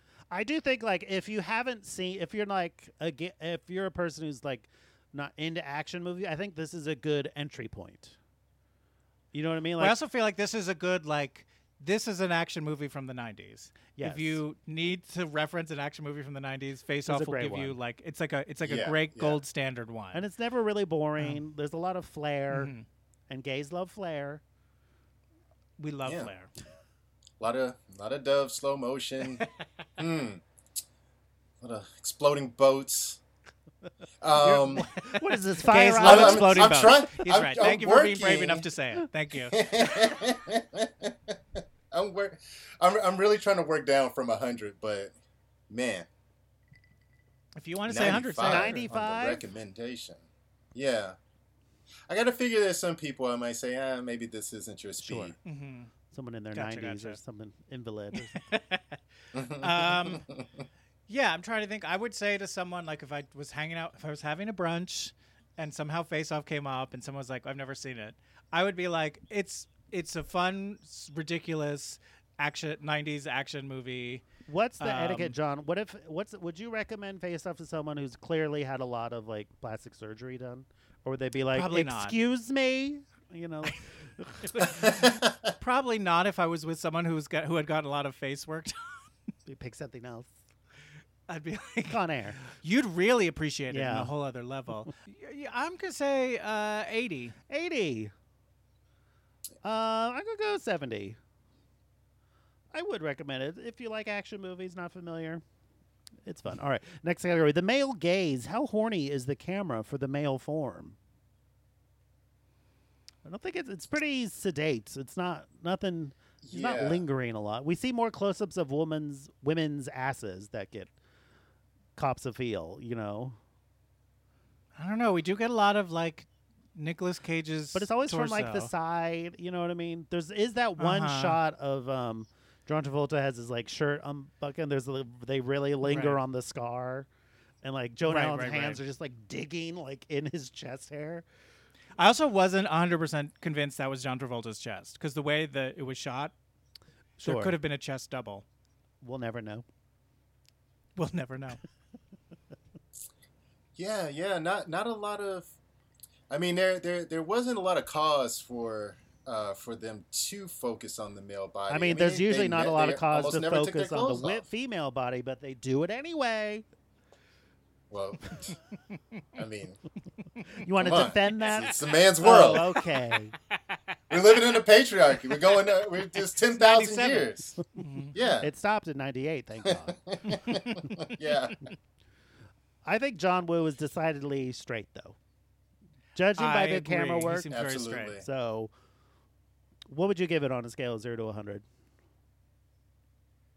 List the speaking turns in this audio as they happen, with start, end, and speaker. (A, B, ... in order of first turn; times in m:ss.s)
0:00.3-0:08.1 A
0:09.3-0:10.0 A
0:09.8-0:20.2 B
0:14.0-0:14.4 A
0:17.1-0:17.8 A
0:18.6-0:19.4 C
0:20.1-0:22.7 A
0:22.5-0:22.8 B
0:23.3-0:24.4 A
0:25.8-0:26.5 B
0:26.0-0:26.3 C
0:27.4-0:29.4 C
0:30.0-0:30.4 C
0:31.6-0:33.2 C
0:34.2-0:34.9 C
0:34.3-0:36.9 A
0:35.6-0:39.7 B
0:36.0-0:38.7 C
0:39.5-0:45.1 C
0:45.7-0:46.1 C
0:47.6-0:48.8 B
0:47.9-0:50.2 C
0:48.4-0:49.4 A
0:50.7-0:51.2 C
0:52.1-0:55.4 C
0:55.0-0:55.3 A
0:55.4-0:55.9 B
0:56.1-0:58.3 A
0:56.5-0:57.2 B
0:58.2-1:00.2 B
0:59.3-1:00.4 C
1:01.1-1:14.2 B
1:14.5-1:24.7 A
1:14.8-1:15.4 B
1:21.5-1:22.2 B
1:24.4-1:29.1 B
1:29.4-1:30.3 A
1:31.3-1:32.0 B
1:31.9-1:32.4 A
1:32.5-1:37.4 B
1:33.7-1:34.1 A
1:37.5-1:38.1 A
1:39.6-1:41.2 A
1:42.7-1:45.4 A
1:46.2-1:51.0 A
1:53.2-2:00.9 A
1:56.4-1:57.0 C
2:02.0-2:03.4 A
2:04.8-2:08.7 B
2:07.7-2:17.1 A
2:10.8-2:11.4 B
2:15.8-2:16.2 B
2:17.6-2:21.2 A
2:18.0-2:18.8 B
2:22.0-2:26.3 B
2:27.2-2:27.6 A
2:27.2-2:28.4 B
2:29.0-2:29.6 A
2:31.0-2:31.6 B
2:33.8-2:35.5 C
2:36.3-2:44.4 C
2:41.7-2:46.6 A
2:47.9-2:48.6 C
2:49.4-2:49.8 C
2:50.6-2:53.3 A
2:50.8-2:52.8 C
2:54.1-2:57.6 C
2:56.4-2:58.2 B
2:58.1-2:58.5 C
2:58.4-3:00.0 A
2:59.6-3:01.6 C
3:00.5-3:00.9 B
3:02.8-3:05.2 A
3:06.1-3:07.5 A
3:06.4-3:08.2 B
3:07.5-3:08.2 C
3:08.2-3:08.7 A
3:09.9-3:11.6 A